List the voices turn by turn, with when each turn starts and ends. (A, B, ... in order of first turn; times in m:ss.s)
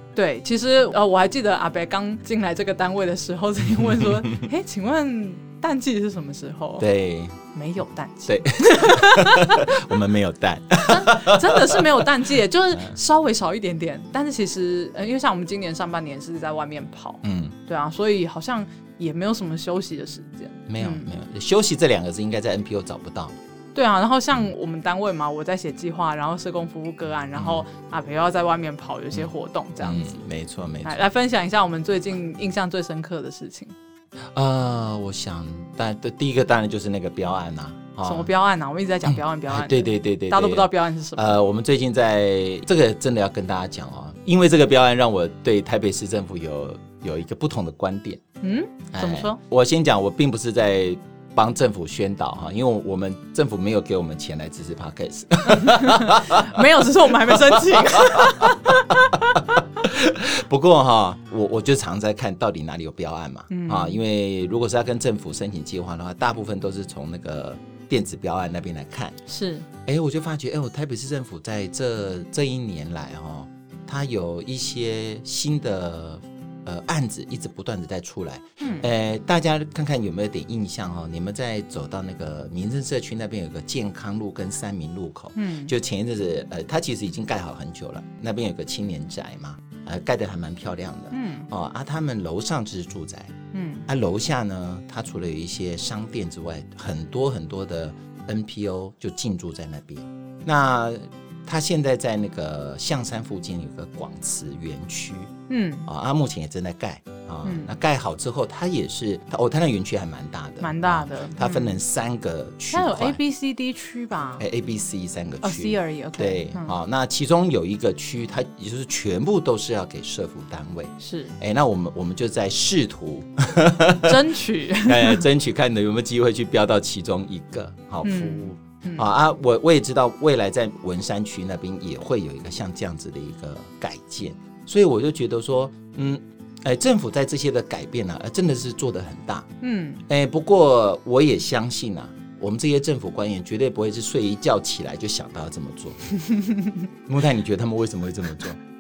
0:00.2-0:06.9 A
0:03.8-0:04.3 B
0:06.8-0:07.4 B
0:07.5-0:09.8 A
0:08.3-0:12.1 B
0:10.8-0:21.1 A
0:12.7-0:13.0 B
0:17.2-0:17.6 B
0:20.7-0:23.4 B
0:23.7-0:30.2 A
0:27.3-0:27.6 B
0:29.1-0:31.1 B
0:30.8-0:33.8 A
0:34.3-0:38.3 B
0:38.0-0:41.4 A
0:39.0-0:48.2 B
0:48.4-0:49.4 A
0:48.9-0:56.6 B
0:55.6-0:59.2 A
0:57.1-0:58.4 B
0:59.1-1:09.2 B
1:03.5-1:04.0 A
1:09.3-1:09.7 A
1:09.8-1:33.4 B
1:18.6-1:18.9 A
1:25.4-1:25.7 A
1:31.1-1:31.5 A
1:33.5-1:33.9 A
1:33.9-1:45.3 B
1:45.5-1:45.9 A
1:45.8-1:53.2 B
1:47.4-1:47.7 A
1:50.6-1:51.8 A
1:52.7-1:54.4 A
1:54.4-2:19.5 B
1:55.4-1:56.7 A
2:01.0-2:01.4 A
2:04.1-2:05.2 A
2:08.0-2:09.1 A
2:19.6-2:20.0 A
2:20.1-2:26.0 B
2:27.1-2:28.6 B